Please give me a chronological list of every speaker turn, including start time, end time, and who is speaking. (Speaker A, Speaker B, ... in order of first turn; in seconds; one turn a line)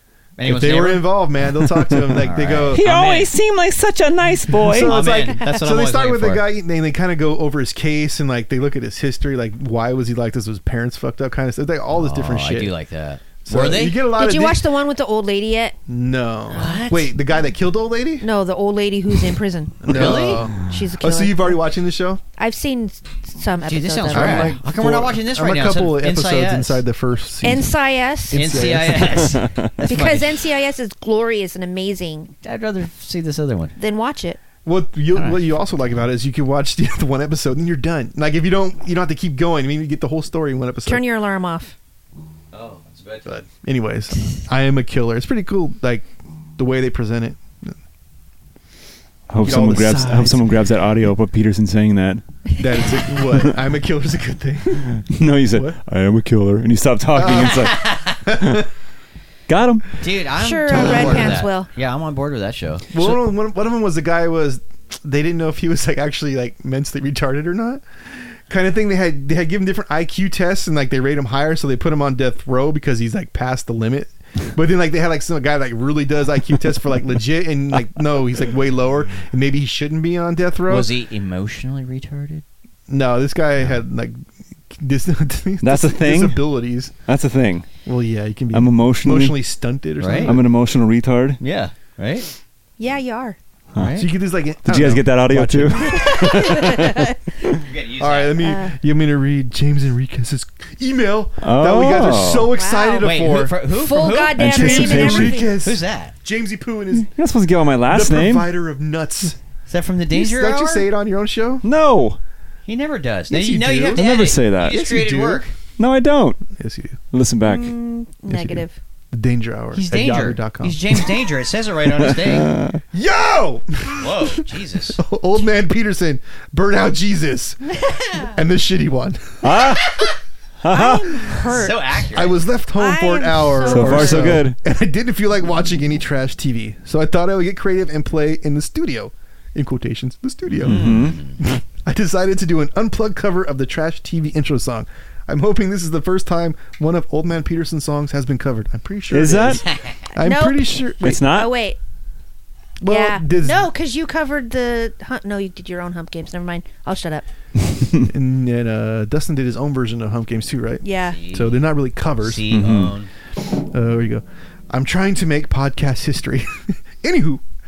Speaker A: 0.4-1.1
Speaker B: 0.5-2.8
Speaker A: 2.1-3.3
Speaker C: 2.7-5.0
Speaker B: 4.6-12.7
Speaker A: 4.8-6.5
Speaker A: 11.9-14.0
Speaker B: 13.4-14.6
Speaker D: 14.1-15.8
Speaker B: 15.9-18.3
Speaker A: 16.5-17.1
Speaker D: 18.2-21.6
Speaker B: 19.8-22.2
Speaker A: 19.9-20.4
Speaker D: 22.4-24.6
Speaker A: 23.6-26.8
Speaker B: 24.1-27.7
Speaker D: 27.4-28.5
Speaker B: 28.3-29.4
Speaker A: 28.3-30.3
Speaker C: 29.4-29.6
Speaker D: 29.8-32.3
Speaker A: 32.4-33.8
Speaker D: 33.8-34.4
Speaker B: 34.6-41.0
Speaker D: 40.9-41.8
Speaker A: 42.5-43.4
Speaker B: 43.3-46.1
Speaker B: 46.6-47.7
Speaker C: 49.3-52.2
Speaker B: 49.4-50.5
Speaker B: 52.6-55.8
Speaker C: 55.0-58.6
Speaker B: 57.1-58.7
Speaker A: 57.4-58.2
Speaker C: 59.5-59.9
Speaker A: 60.0-63.2
Speaker D: 60.4-61.7
Speaker B: 60.7-61.4
Speaker B: 62.9-67.8
Speaker B: 68.5-80.9
Speaker A: 80.7-82.4
Speaker B: 82.9-86.9
Speaker C: 85.6-86.4
Speaker C: 87.1-87.7
Speaker B: 87.8-90.4
Speaker C: 88.5-89.4
Speaker A: 90.0-90.4
Speaker C: 90.2-91.4
Speaker A: 91.4-92.3
Speaker D: 92.8-93.4
Speaker A: 93.8-94.1
Speaker B: 94.0-96.4
Speaker C: 94.7-97.6
Speaker D: 95.9-97.2
Speaker A: 97.6-98.5
Speaker B: 98.0-103.5
Speaker D: 98.4-98.8
Speaker C: 101.4-102.5
Speaker D: 102.5-105.5
Speaker A: 103.0-104.4
Speaker C: 104.4-105.4
Speaker B: 104.5-107.1
Speaker A: 105.6-106.1
Speaker C: 107.0-108.5
Speaker B: 107.9-109.4
Speaker A: 109.7-110.9
Speaker B: 110.1-111.7
Speaker C: 111.6-112.2
Speaker A: 112.7-115.5
Speaker B: 113.3-114.1
Speaker C: 114.0-114.8
Speaker B: 114.7-115.5
Speaker C: 115.8-116.4
Speaker B: 116.6-117.0
Speaker C: 117.1-117.7
Speaker D: 117.4-118.8
Speaker B: 118.3-121.1
Speaker A: 119.7-122.6
Speaker C: 122.0-122.8
Speaker B: 122.9-129.8
Speaker A: 124.0-125.0
Speaker C: 129.4-130.1
Speaker C: 130.6-131.4
Speaker D: 130.7-132.1
Speaker A: 131.4-132.4
Speaker B: 132.1-151.2
Speaker D: 132.8-134.4
Speaker C: 133.6-134.6
Speaker A: 140.5-141.4
Speaker C: 140.6-141.2
Speaker C: 149.1-149.6
Speaker A: 149.7-150.0
Speaker D: 150.1-151.8
Speaker C: 151.0-151.5
Speaker B: 152.8-153.7
Speaker D: 152.9-157.2
Speaker B: 158.0-162.6
Speaker D: 160.8-161.2
Speaker A: 161.1-161.6
Speaker A: 162.2-163.1
Speaker C: 162.5-162.9
Speaker B: 163.4-167.4